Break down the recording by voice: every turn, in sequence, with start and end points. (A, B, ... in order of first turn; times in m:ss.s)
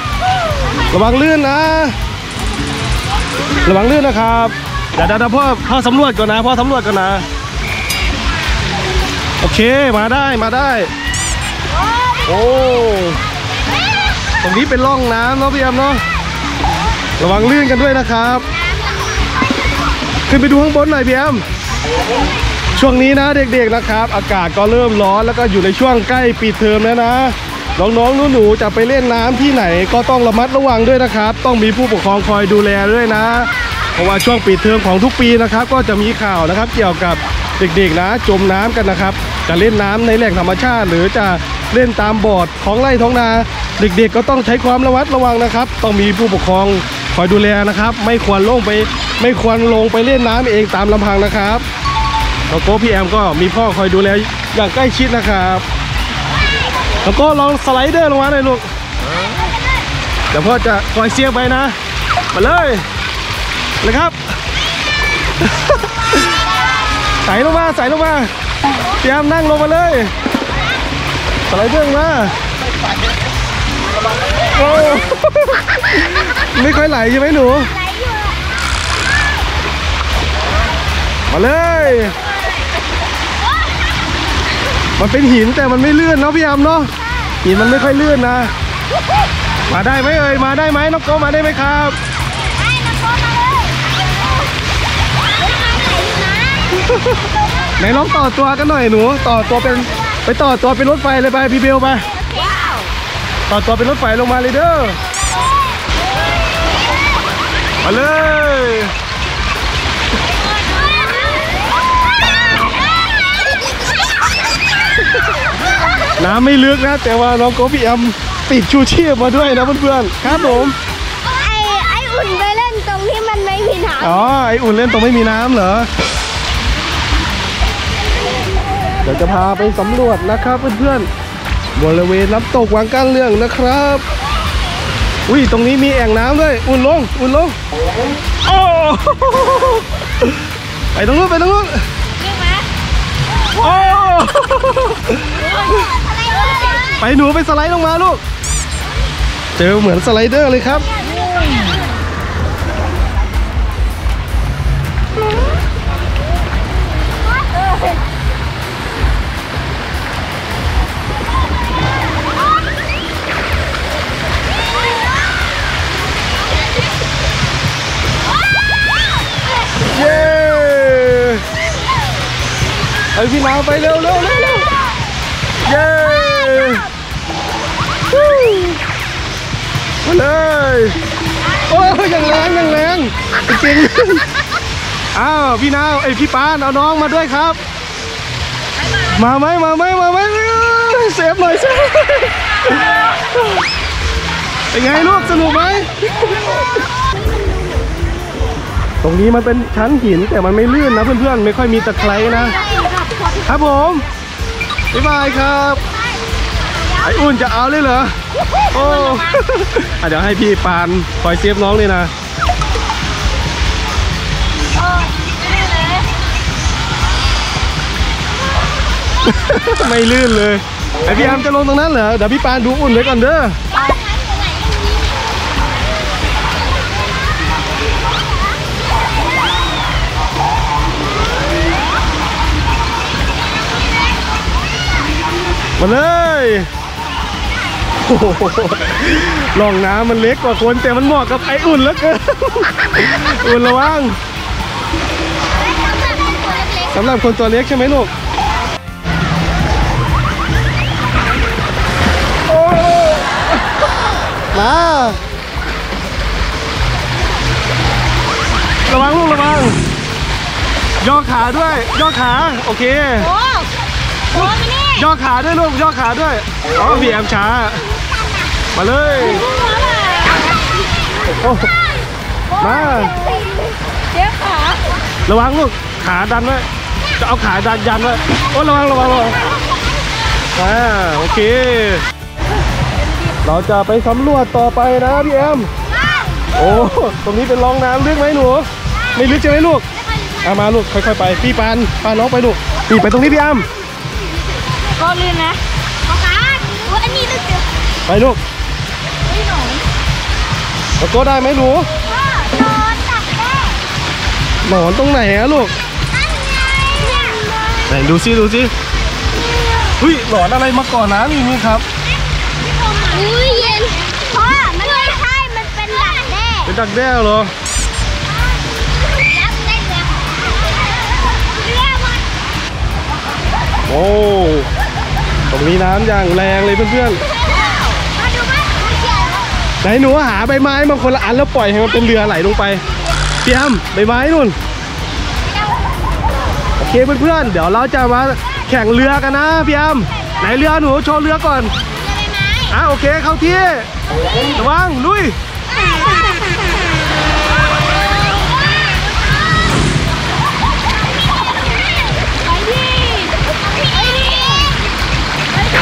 0:00.9-0:02.0 A
0:03.6-0:07.2 A
0:09.4-0:10.9 A
0:12.2-0:13.2 A
0:14.4-0:16.0 A
0:17.2-0:18.5 A
0:20.3-0:21.4 A
0:22.7-0:51.6 A
0:52.5-0:55.6 A
0:57.0-0:58.7 A
1:00.3-1:01.8 A
1:02.3-1:02.8 A
1:03.8-1:04.2 A
1:05.4-1:05.7 A
1:07.2-1:08.3 A
1:09.0-1:10.1 A
1:11.5-1:12.4 A
1:14.5-1:17.7 A
1:17.8-1:18.4 B
1:21.3-1:22.2 A
1:25.0-1:28.5 A
1:29.7-1:32.0 A
1:32.6-1:34.3 B
1:35.4-1:36.7 B
1:36.8-1:37.0 A
1:37.8-1:42.1 A
1:42.3-1:42.9 B
1:43.5-1:45.0 A
1:47.8-1:48.9 A
1:53.0-1:53.7 B
1:56.2-2:00.8 A
2:01.2-2:04.3 B
2:04.0-2:05.9 A
2:09.0-2:11.1 A
2:11.8-2:14.0 A
2:15.3-2:17.6 A
2:18.4-2:20.3 A
2:20.9-2:21.8 A
2:22.2-2:22.7 B
2:23.6-2:25.4 A
2:26.3-2:26.9 B
2:27.0-2:28.2 A
2:29.6-2:30.9 A
2:31.4-2:31.6 B
2:49.8-2:51.4 A
2:53.1-2:54.7 A
2:55.6-2:56.9 A
2:58.1-2:58.8 A
3:00.0-3:01.0 A
3:01.6-3:04.2 A
3:05.1-3:07.6 A
3:09.1-3:12.7 A
3:14.7-3:16.0 A
3:19.0-3:22.6 A
3:22.6-3:23.4 B
3:23.4-3:24.0 A
3:24.9-3:25.8 A
3:27.0-3:28.1 A
3:28.7-3:32.1 A
3:34.8-3:36.1 B
3:39.2-3:43.6 A
3:43.8-3:45.1 B
3:55.8-3:56.7 A
3:58.0-4:04.2 A
4:06.1-4:06.9 B
4:06.8-4:08.1 A
4:12.5-4:13.4 A
4:14.5-4:15.2 A
4:18.9-4:19.8 A
4:21.0-4:23.3 A
4:23.3-4:23.7 B
4:24.3-4:25.0 B
4:24.4-4:27.8 A
4:28.7-4:29.5 A
4:29.4-4:30.8 B
4:31.4-4:31.7 A
4:32.5-4:34.9 B
4:32.6-4:33.2 A
4:35.3-4:36.7 A
4:37.2-4:39.4 A
4:40.5-4:42.0 A
4:43.4-4:45.7 A
4:46.6-4:49.8 A
4:50.4-4:53.7 A
4:54.9-4:57.7 B
4:58.1-4:58.4 A
4:59.3-4:59.8 B
5:01.0-5:01.9 A
5:02.1-5:03.8 B
5:04.6-5:05.7 A
5:06.2-5:07.8 B
5:07.8-5:08.7 A
5:09.5-5:09.9 B
5:10.0-5:11.8 A
5:12.6-5:16.7 B
5:16.6-5:17.5 A
5:19.2-5:20.8 B
5:21.3-5:22.3 B
5:23.9-5:24.7 A
5:25.5-5:27.2 A
5:27.6-5:29.5 B
5:29.8-5:32.8 A
5:33.4-5:34.6 A
5:36.8-5:41.7 A
5:42.1-5:42.7 B
5:42.7-5:43.9 A
5:44.5-5:45.4 A
5:52.3-5:54.7 B